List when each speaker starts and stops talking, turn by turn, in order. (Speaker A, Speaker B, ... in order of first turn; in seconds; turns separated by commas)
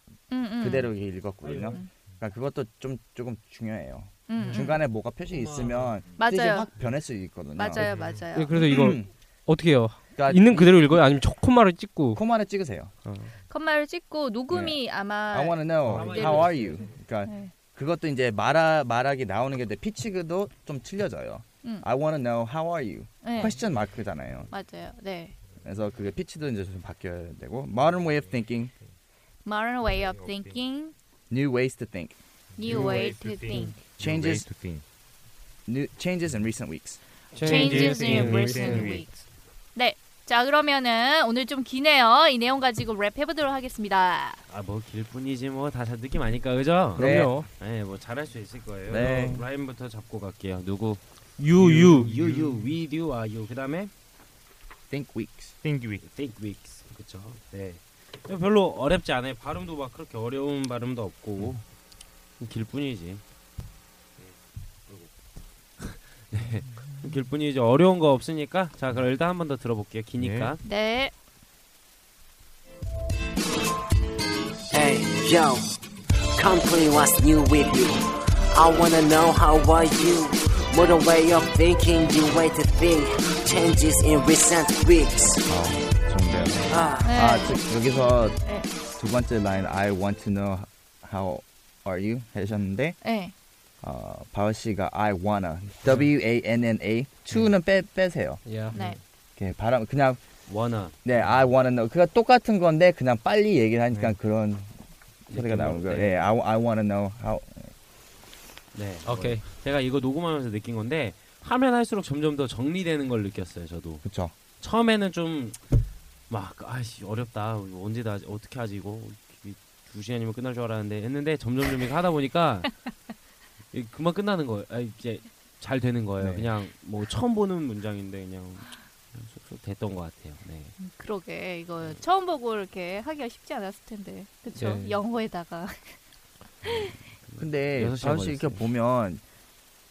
Speaker A: 0.3-0.9, Speaker B: 0.6-7.9, Speaker C: 1.4-1.8, Speaker A: 4.3-4.8, Speaker C: 5.3-5.8, Speaker A: 6.2-6.7, Speaker A: 7.5-8.5, Speaker D: 7.8-8.2, Speaker E: 8.3-12.2, Speaker B: 8.5-9.1, Speaker B: 10.1-11.0, Speaker B: 12.1-12.9, Speaker E: 13.0-13.3, Speaker A: 13.5-17.5, Speaker B: 14.5-24.5, Speaker C: 15.9-17.0, Speaker A: 23.2-23.6, Speaker A: 24.5-25.3, Speaker B: 25.6-28.7, Speaker D: 27.9-28.4, Speaker A: 29.4-30.9, Speaker D: 29.8-30.6, Speaker B: 31.3-32.1, Speaker A: 32.6-33.8, Speaker D: 32.6-34.8, Speaker B: 34.0-34.5, Speaker B: 35.6-37.0, Speaker E: 37.3-39.1, Speaker A: 37.4-39.2, Speaker D: 37.4-39.1, Speaker A: 39.7-44.4, Speaker C: 44.5-51.0, Speaker B: 47.0-47.4, Speaker E: 47.0-47.5, Speaker B: 48.9-49.5, Speaker E: 51.4-52.1, Speaker C: 51.6-53.9, Speaker D: 51.6-52.7, Speaker B: 54.9-55.5, Speaker D: 55.6-56.0, Speaker C: 56.0-61.6, Speaker C: 62.4-63.2, Speaker C: 65.8-70.6, Speaker D: 70.2-70.6, Speaker A: 70.6-71.1, Speaker F: 74.7-75.7, Speaker F: 76.3-85.4, Speaker B: 85.5-88.4, Speaker F: 86.7-87.0, Speaker A: 87.0-87.5, Speaker B: 89.0-93.0, Speaker A: 93.0-93.3, Speaker B: 93.8-98.4, Speaker E: 98.4-98.8, Speaker A: 98.7-99.0, Speaker B: 99.3-100.2, Speaker C: 100.5-101.0, Speaker B: 101.0-104.7, Speaker B: 105.3-107.7, Speaker C: 105.3-106.3, Speaker C: 108.7-114.0, Speaker E: 109.0-109.5, Speaker B: 114.0-114.3, Speaker C: 114.6-115.6, Speaker C: 116.3-122.9, Speaker C: 123.7-130.7, Speaker A: 130.8-135.9, Speaker E: 134.5-135.0, Speaker C: 136.7-138.6, Speaker B: 137.4-139.2